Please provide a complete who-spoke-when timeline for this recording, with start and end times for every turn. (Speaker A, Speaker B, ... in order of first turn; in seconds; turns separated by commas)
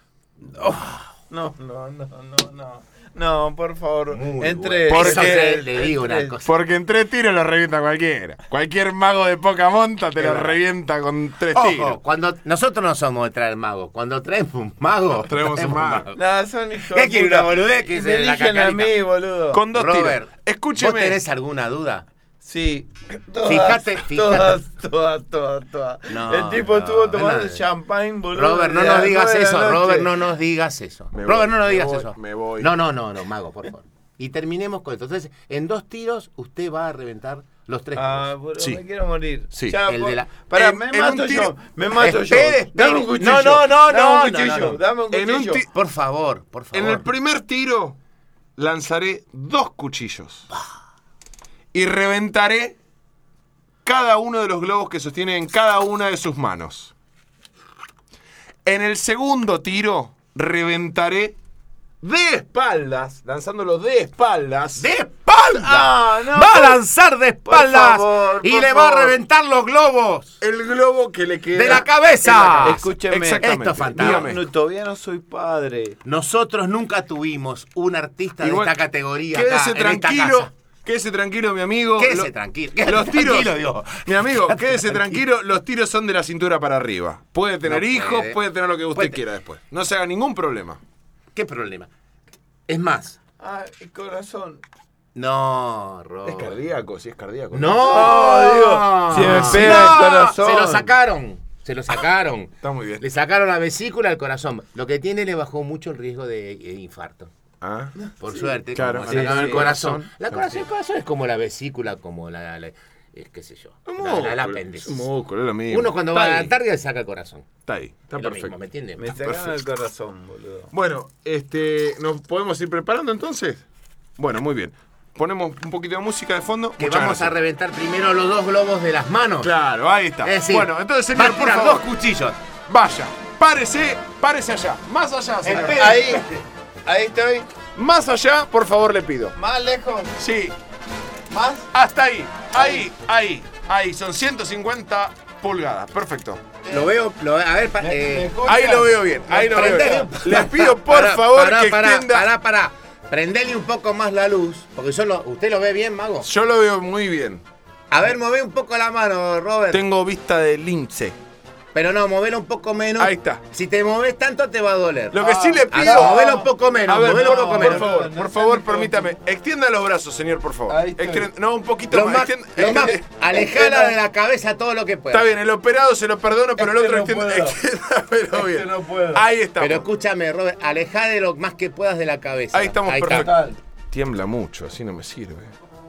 Speaker A: 0.5-6.3, Speaker B: 4.1-6.5, Speaker C: 4.9-5.6, Speaker C: 6.4-12.0, Speaker B: 10.2-10.6, Speaker B: 11.5-16.2, Speaker C: 15.1-16.1, Speaker A: 16.1-19.6, Speaker B: 16.8-19.0, Speaker C: 19.5-21.2, Speaker B: 19.7-22.1, Speaker A: 22.4-30.1, Speaker B: 23.4-24.6, Speaker B: 26.1-27.7, Speaker B: 28.3-38.3, Speaker C: 31.1-32.7, Speaker A: 38.0-45.6, Speaker C: 39.5-39.8, Speaker B: 39.9-40.3, Speaker C: 40.5-41.5, Speaker B: 42.0-44.8, Speaker C: 45.1-45.7, Speaker B: 45.7-47.0, Speaker C: 46.7-48.0, Speaker C: 48.6-50.5, Speaker C: 51.7-52.8, Speaker C: 53.8-56.9, Speaker C: 58.6-61.4, Speaker C: 62.0-64.9, Speaker B: 64.8-70.4, Speaker A: 65.4-66.8, Speaker A: 67.5-69.2, Speaker C: 70.4-74.5, Speaker B: 71.5-72.9, Speaker A: 72.2-76.0, Speaker B: 73.4-74.4, Speaker B: 76.0-80.5, Speaker C: 78.4-78.8, Speaker C: 79.3-82.3, Speaker B: 82.0-85.2, Speaker C: 82.8-90.8, Speaker B: 87.7-88.4, Speaker B: 88.9-89.2, Speaker B: 91.3-91.9, Speaker B: 92.7-93.2, Speaker A: 93.4-94.6, Speaker B: 95.2-96.6, Speaker C: 96.3-98.1, Speaker B: 97.5-107.3, Speaker A: 97.8-100.9, Speaker C: 99.3-100.0, Speaker C: 102.6-103.0, Speaker C: 107.6-107.9, Speaker A: 108.1-108.5, Speaker B: 108.2-115.1, Speaker C: 108.8-110.6, Speaker A: 109.1-109.7, Speaker C: 113.9-116.5, Speaker B: 115.7-117.5, Speaker C: 117.7-118.5, Speaker B: 118.2-119.1, Speaker A: 119.0-120.7, Speaker C: 119.2-119.6, Speaker C: 120.7-123.6, Speaker C: 124.2-127.3, Speaker B: 126.8-129.5, Speaker C: 129.4-131.9, Speaker B: 130.2-132.4, Speaker C: 132.7-135.9, Speaker B: 135.4-136.2, Speaker A: 135.6-136.3, Speaker A: 136.9-137.5, Speaker C: 137.8-139.4, Speaker A: 139.3-140.1, Speaker C: 140.2-140.6, Speaker A: 141.3-141.7, Speaker C: 141.7-146.4, Speaker B: 146.7-148.3, Speaker A: 147.8-150.1, Speaker C: 148.4-152.3, Speaker B: 149.3-156.3, Speaker C: 156.2-157.4, Speaker B: 157.9-159.8, Speaker C: 159.7-161.2, Speaker B: 161.7-168.0, Speaker C: 163.0-163.4, Speaker C: 165.1-173.9, Speaker A: 165.2-169.1, Speaker A: 170.7-171.3, Speaker B: 171.9-175.3, Speaker A: 173.3-173.6, Speaker C: 175.1-179.9, Speaker A: 176.6-177.6, Speaker A: 178.3-179.2, Speaker B: 179.6-183.4, Speaker C: 182.5-185.5, Speaker A: 183.0-183.6